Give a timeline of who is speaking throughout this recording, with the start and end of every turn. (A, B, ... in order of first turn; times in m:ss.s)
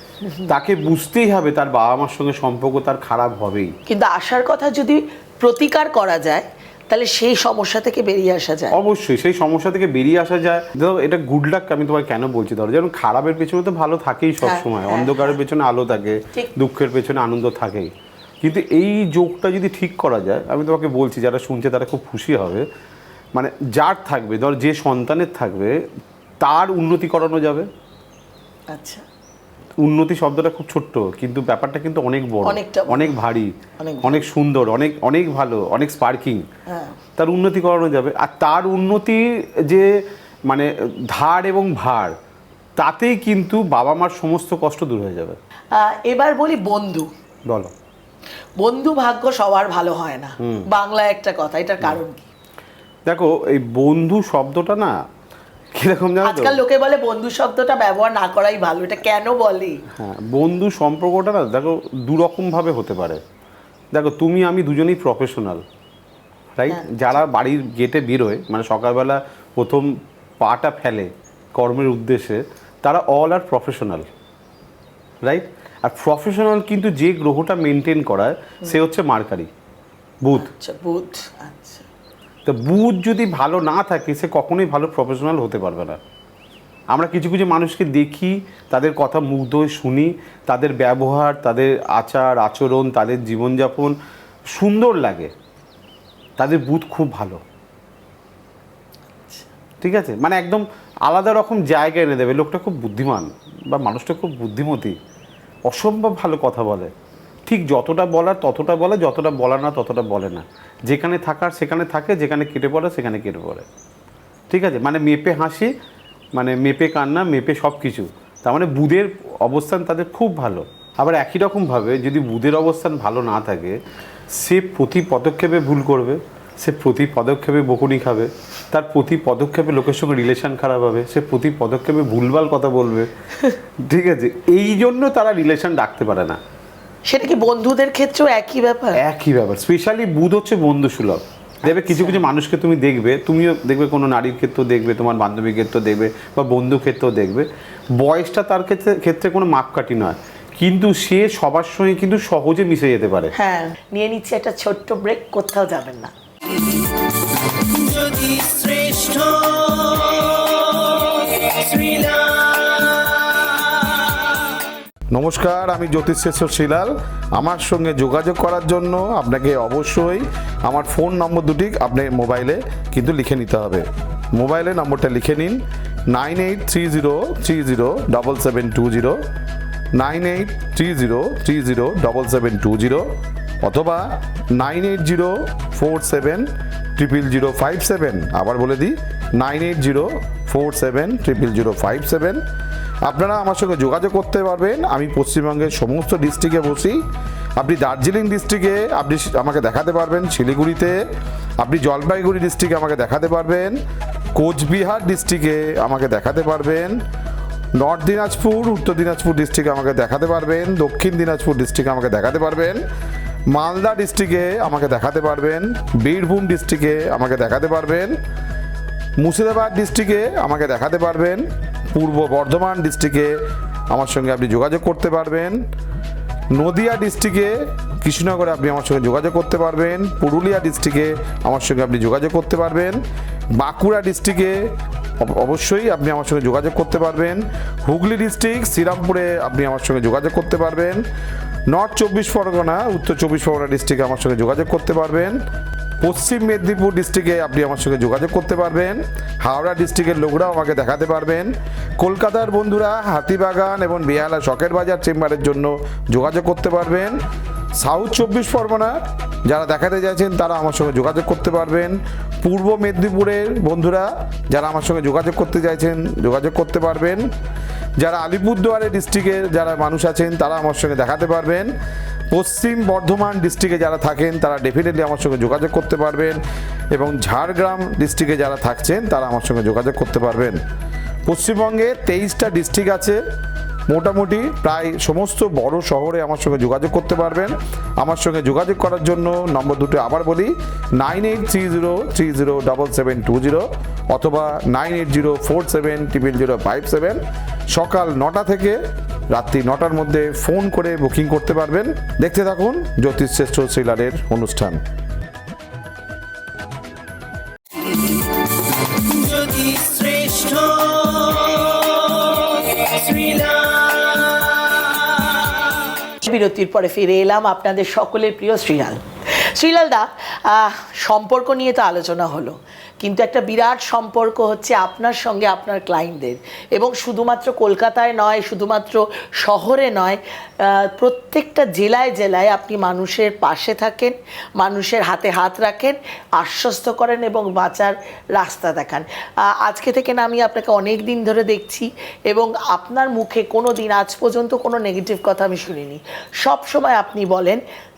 0:00.5-0:03.7 A
0:03.9-0:08.8 B
0:08.7-0:22.7 A
0:14.4-0:15.4 B
0:23.3-0:25.8 A
0:26.4-0:27.7 A
0:28.7-0:29.0 B
0:29.8-0:36.5 A
0:32.4-0:33.1 B
0:33.8-0:34.3 B
0:36.7-0:36.9 B
0:37.2-0:39.9 A
0:40.4-0:42.2 A
0:42.8-0:45.4 A
0:45.7-0:47.1 B
0:47.5-0:47.7 A
0:48.6-0:52.3 B
0:50.4-0:50.7 A
0:53.0-0:55.0 A
0:55.7-0:56.6 A
0:56.2-0:59.8 B
0:59.9-1:03.2 A
1:03.9-1:05.6 A
1:06.6-1:14.1 A
1:15.2-1:19.5 A
1:20.4-1:21.8 B
1:22.4-1:26.0 A
1:26.9-1:34.0 A
1:34.5-1:35.3 A
1:36.4-1:37.4 A
1:39.8-1:45.0 A
1:45.6-1:46.9 A
1:47.5-1:53.6 A
1:54.5-1:55.7 A
1:56.4-2:03.8 A
2:04.3-2:13.1 A
2:13.8-2:16.4 A
2:17.1-2:19.0 B
2:19.0-2:33.3 A
2:21.6-2:22.2 B
2:33.3-2:36.1 B
2:36.4-2:44.4 C
2:45.1-2:59.2 D
2:59.9-3:03.1 D
3:03.6-3:12.4 D
3:13.0-3:17.0 D
3:17.6-3:21.0 D
3:21.6-3:23.8 D
3:24.3-3:27.0 D
3:27.8-3:32.8 D
3:33.5-3:38.2 D
3:39.2-3:43.4 D
3:43.9-3:45.6 D
3:46.5-3:53.0 D
3:53.6-4:01.0 D
4:01.7-4:05.4 D
4:06.0-4:17.2 D
4:17.8-4:27.3 D
4:28.0-4:31.7 D
4:32.3-4:36.4 D
4:36.9-4:40.6 D
4:41.3-4:43.2 D
4:43.9-4:57.2 D
4:57.7-4:58.8 D
4:59.3-5:04.8 D
5:07.8-5:15.8 C
5:16.2-5:47.6 B